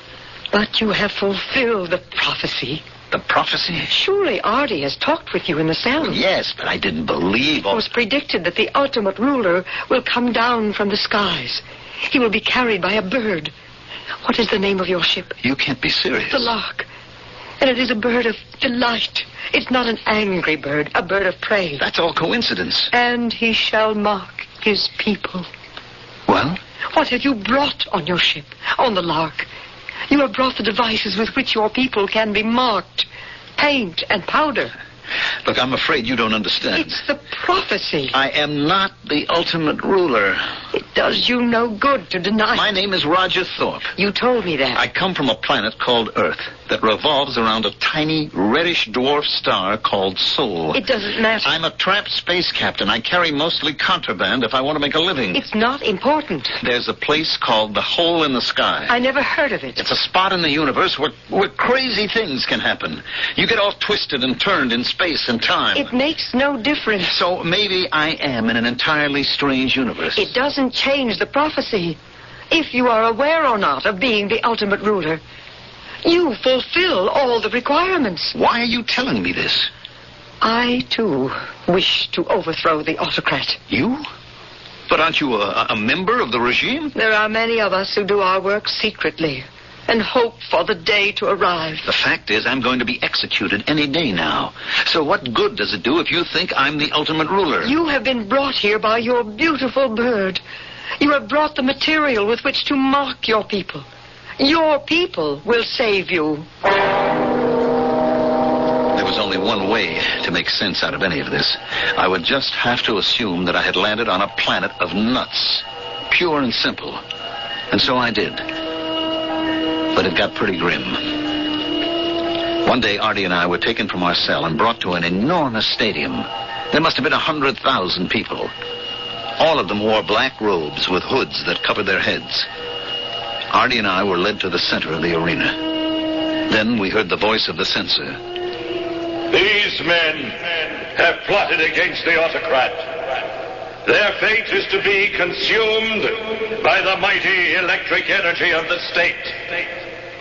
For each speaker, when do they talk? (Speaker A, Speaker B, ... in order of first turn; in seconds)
Speaker A: 0.5-2.9, 3.9-6.2, 7.7-13.5, 14.2-15.4, 16.3-16.9, 17.6-21.8, 22.9-25.5, 26.9-29.5, 30.1-34.7, 36.8-38.1, 40.7-42.7, 44.0-44.8, 50.7-51.5, 55.3-56.5, 58.9-59.8, 65.8-67.1, 70.2-72.0, 72.5-75.2, 76.0-78.3, 80.4-83.6, 87.0-91.9, 97.6-100.4, 101.0-103.9, 104.4-106.5
Speaker B: 3.1-3.9, 6.1-7.9, 15.4-16.5, 21.8-22.9, 26.3-26.6, 35.5-37.0, 38.1-40.4, 42.5-43.9, 44.8-50.8, 51.4-55.4, 56.6-58.9, 59.8-65.9, 67.0-70.3, 78.3-79.7, 83.7-84.1, 84.9-86.9, 91.8-97.7, 108.9-117.0, 117.7-118.4, 119.9-121.2, 122.6-128.5, 129.4-132.5, 133.5-135.7, 136.5-138.2
Speaker C: 139.3-142.9, 143.9-149.4